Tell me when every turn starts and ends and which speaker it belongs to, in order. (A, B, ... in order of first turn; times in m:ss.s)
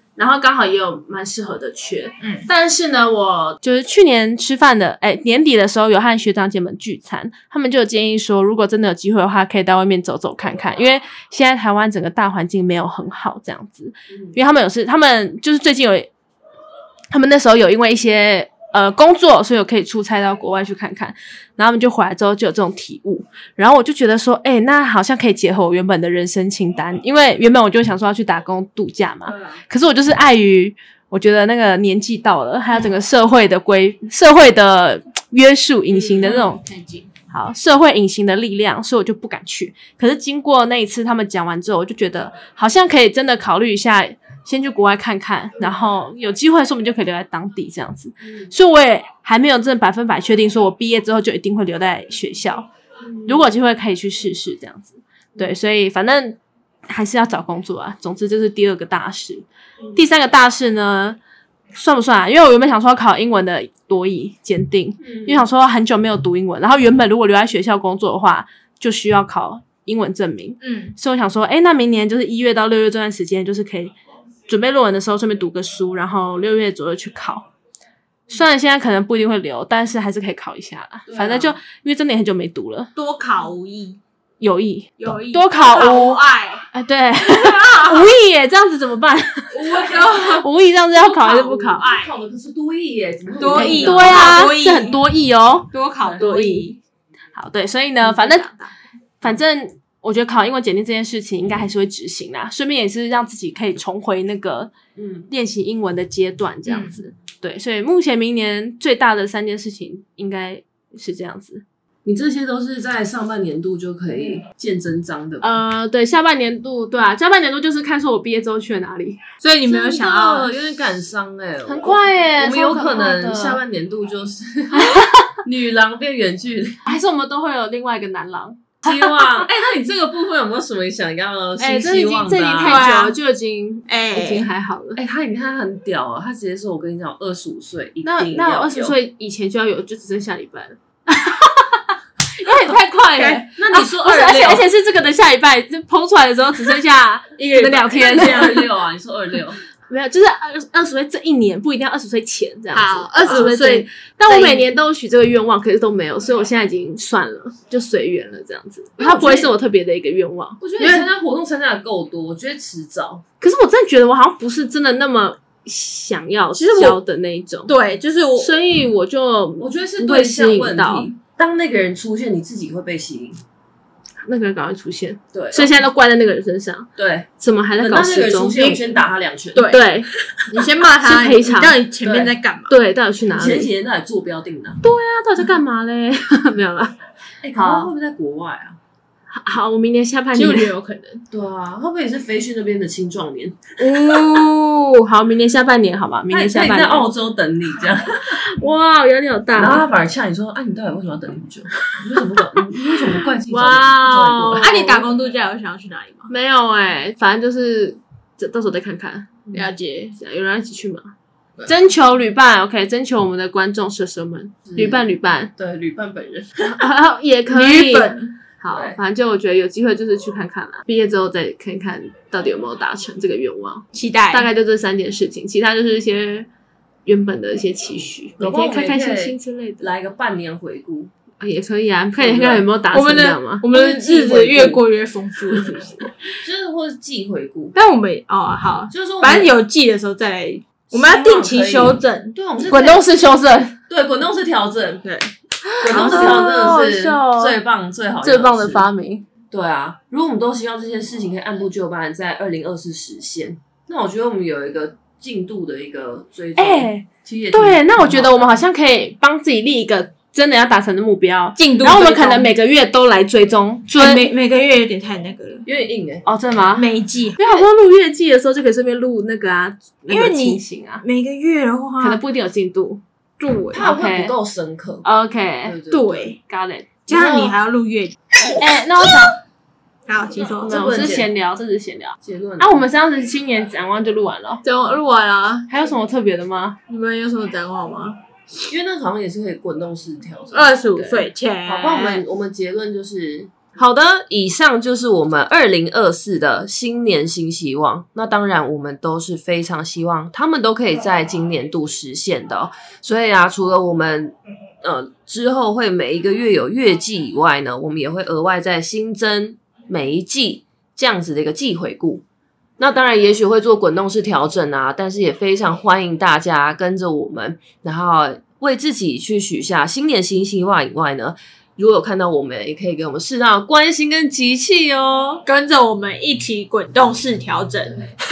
0:00.2-0:16.1 A
0:02.2-0:02.5 B
0:17.1-0:36.6 A
0:36.2-0:37.1 B
0:37.3-0:52.7 A
0:53.2-1:01.2 A
1:01.7-1:13.9 A
1:05.0-1:05.4 C
1:10.6-1:11.0 B
1:14.5-1:17.5 A
1:18.3-1:22.9 A
1:21.1-1:21.6 C
1:23.0-1:24.0 B
1:24.4-1:31.8 A
1:25.0-1:26.6 B
1:27.2-1:28.1 B
1:29.5-1:32.1 B
1:29.7-1:30.1 C
1:31.8-1:34.5 C
1:33.4-1:35.0 B
1:33.5-1:36.7 A
1:35.7-1:36.8 B
1:37.4-1:38.5 A
1:38.0-1:38.7 B
1:39.2-1:44.7 A
1:45.0-1:45.3 C
1:45.3-1:51.6 A
1:46.6-1:47.0 B
1:52.0-1:55.6 C
1:55.4-1:59.2 A
1:59.4-2:00.6 B
1:59.7-2:06.8 C
2:01.6-2:03.6 A
2:04.7-2:05.4 A
2:06.8-2:09.3 A
2:08.8-2:12.8 C
2:11.6-2:15.0 A
2:12.6-2:13.2 B
2:13.9-2:14.5 B
2:15.0-2:19.0 C
2:18.0-2:21.8 A
2:22.4-2:28.7 A
2:23.2-2:23.4 B
2:23.5-2:24.6 C
2:27.5-2:29.6 C
2:29.9-2:41.1 A
2:32.7-2:34.7 B
2:39.0-2:39.3 B
2:39.1-2:39.5 C
2:40.6-2:43.2 C
2:43.4-2:47.7 A
2:46.6-2:46.9 B
2:47.7-2:48.6 B
2:48.4-2:51.1 A
2:49.6-2:53.4 C
2:54.2-2:58.8 A
2:55.3-2:55.7 C
2:57.0-2:57.3 C
2:57.8-2:59.8 C
2:59.5-2:59.8 B
2:59.6-3:03.7 A
3:00.5-3:02.7 B
3:03.3-3:04.8 C
3:04.8-3:07.0 A
3:07.4-3:08.8 C
3:07.5-3:07.9 A
3:09.3-3:10.7 A
3:10.3-3:11.2 B
3:11.3-3:14.2 C
3:14.0-3:17.1 A
3:14.0-3:14.4 B
3:16.3-3:18.4 C
3:18.2-3:19.9 A
3:19.6-3:24.8 C
3:22.5-3:25.0 A
3:24.6-3:26.3 B
3:26.3-3:29.5 A
3:29.5-3:30.2 B
3:30.2-3:31.1 A
3:31.6-3:35.5 A
3:34.7-3:35.0 C
3:35.6-3:36.7 C
3:36.6-3:46.5 A
3:37.5-3:38.4 B
3:38.7-3:39.0 C
3:43.9-3:44.5 B
3:47.0-3:49.9 A
3:48.4-3:51.1 C
3:51.4-3:53.7 A
3:52.2-3:52.6 C
3:52.9-3:56.1 B
3:53.7-3:54.8 C
3:56.4-3:57.7 C
3:57.7-4:02.3 B
3:58.9-3:59.5 C
4:00.9-4:03.0 C
4:02.6-4:03.8 A
4:03.9-4:05.0 C
4:05.0-4:06.6 B
4:05.8-4:08.9 C
4:05.9-4:07.6 A
4:08.2-4:09.2 A
4:09.5-4:18.6 C
4:16.6-4:24.3 A
4:21.6-4:22.5 B
4:23.9-4:25.6 B
4:25.6-4:26.2 C
4:26.2-4:31.0 A
4:26.8-4:27.6 B
4:30.1-4:32.2 B
4:32.0-4:33.0 A
4:33.4-4:33.8 B
4:33.7-4:35.0 C
4:33.8-4:34.3 A
4:35.0-4:35.8 A
4:35.6-4:36.3 C
4:35.9-4:36.4 B
4:36.5-4:37.5 A
4:37.1-4:38.2 B
4:38.6-4:39.4 A
4:40.1-4:40.9 B
4:40.5-4:41.3 C
4:40.6-4:44.6 A
4:42.2-4:42.8 C
4:44.6-4:45.7 B
4:45.7-4:46.8 A
4:46.9-4:48.2 B
4:48.7-4:50.7 C
4:50.5-4:52.2 B
4:51.0-4:51.2 A
4:51.6-5:12.2 C
5:12.8-5:25.4 C
5:25.4-5:28.1 B